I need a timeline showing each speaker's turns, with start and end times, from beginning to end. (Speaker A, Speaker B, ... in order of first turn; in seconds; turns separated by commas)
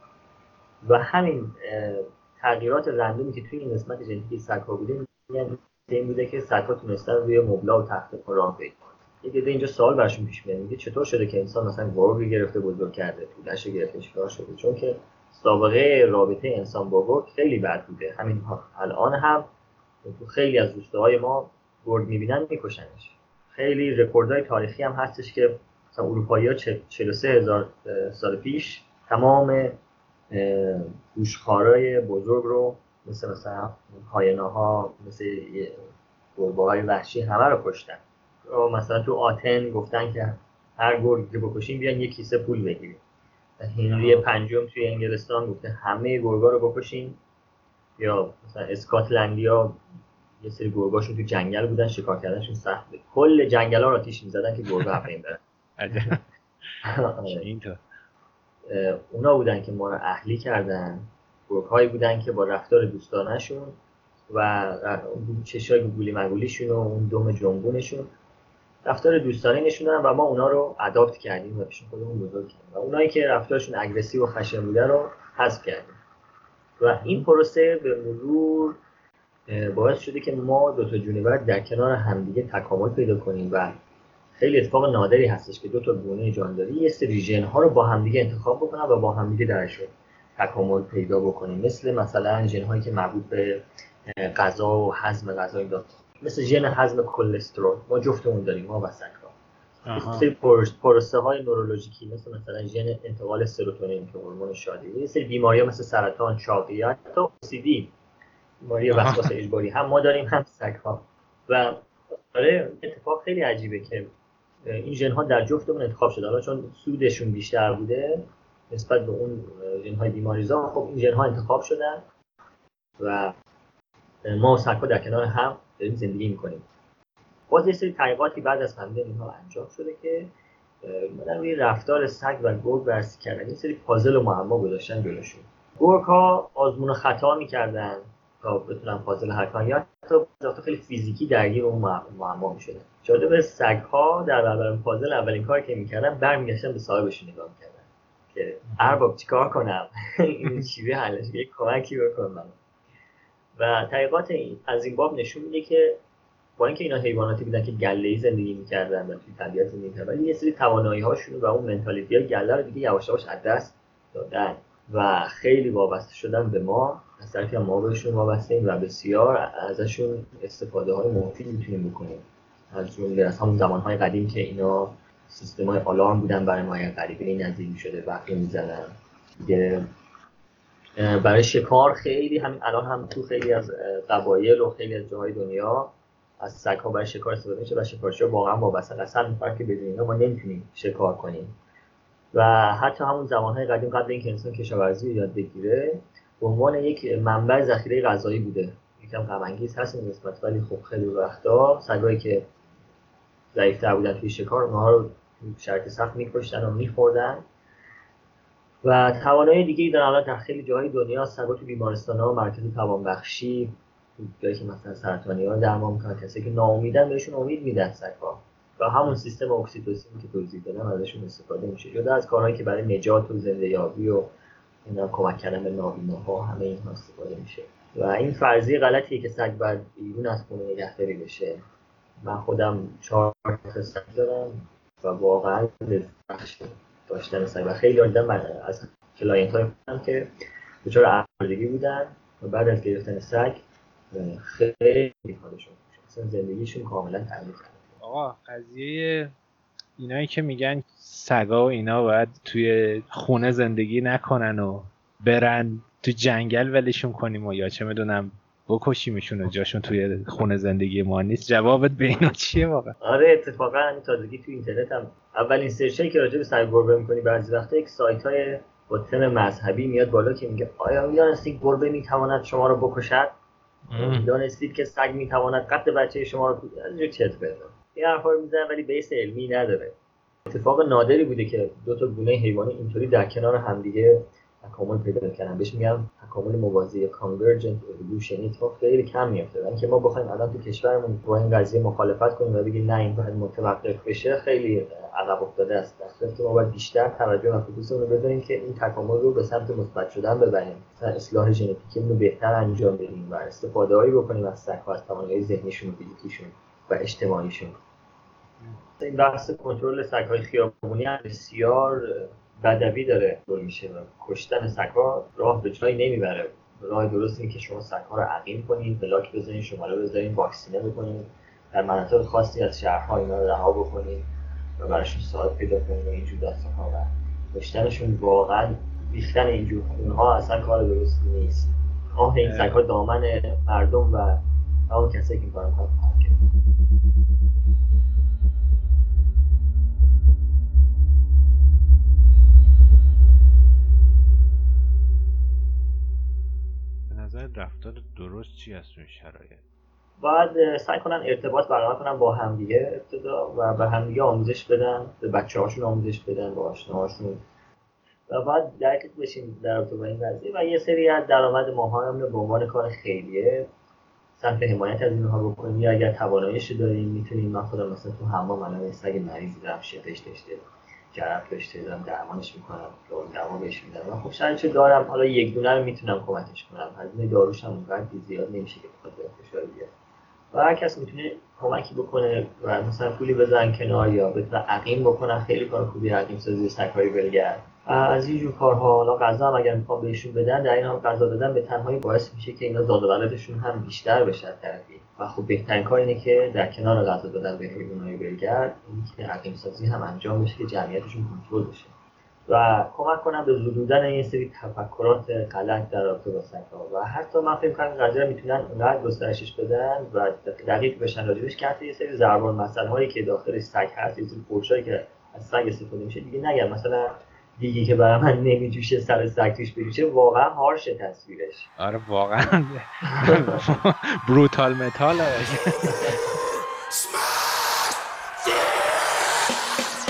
Speaker A: 0.8-19.5, Speaker A: 20.0-29.8, Speaker A: 30.3-35.8, Speaker A: 36.4-43.0, Speaker A: 43.6-47.2, Speaker B: 43.9-44.3, Speaker A: 48.0-49.8, Speaker A: 50.4-55.4, Speaker B: 55.8-56.2, Speaker A: 55.9-56.2, Speaker A: 56.8-57.4, Speaker B: 57.2-57.8, Speaker A: 58.7-63.8, Speaker A: 64.3-68.1, Speaker A: 68.8-76.0, Speaker A: 76.8-78.8, Speaker A: 79.5-83.7, Speaker A: 84.4-93.6, Speaker A: 94.2-99.3, Speaker B: 99.9-100.3, Speaker A: 99.9-107.9, Speaker A: 108.6-111.7, Speaker B: 108.9-109.3, Speaker A: 112.3-114.0, Speaker A: 114.7-122.0, Speaker A: 123.0-123.3, Speaker A: 124.2-126.6, Speaker A: 127.5-130.3, Speaker A: 130.8-152.5, Speaker A: 153.6-156.0, Speaker A: 156.6-178.9, Speaker A: 179.4-179.8, Speaker A: 181.0-191.5, Speaker A: 192.3-202.5, Speaker A: 203.5-207.4, Speaker A: 208.8-224.3, Speaker A: 224.8-231.6, Speaker A: 232.2-240.3, Speaker A: 240.8-243.6, Speaker A: 244.1-247.9, Speaker B: 248.0-249.3, Speaker B: 250.0-262.9, Speaker A: 263.0-273.3, Speaker B: 273.9-274.3, Speaker A: 273.9-279.9, Speaker A: 280.5-307.8, Speaker A: 309.0-324.2, Speaker A: 324.8-336.3, Speaker B: 332.4-332.8, Speaker B: 347.1-349.6, Speaker A: 350.2-357.4, Speaker A: 358.3-363.6, Speaker A: 364.4-379.9, Speaker A: 380.5-401.9, Speaker A: 402.5-421.7, Speaker B: 421.8-426.2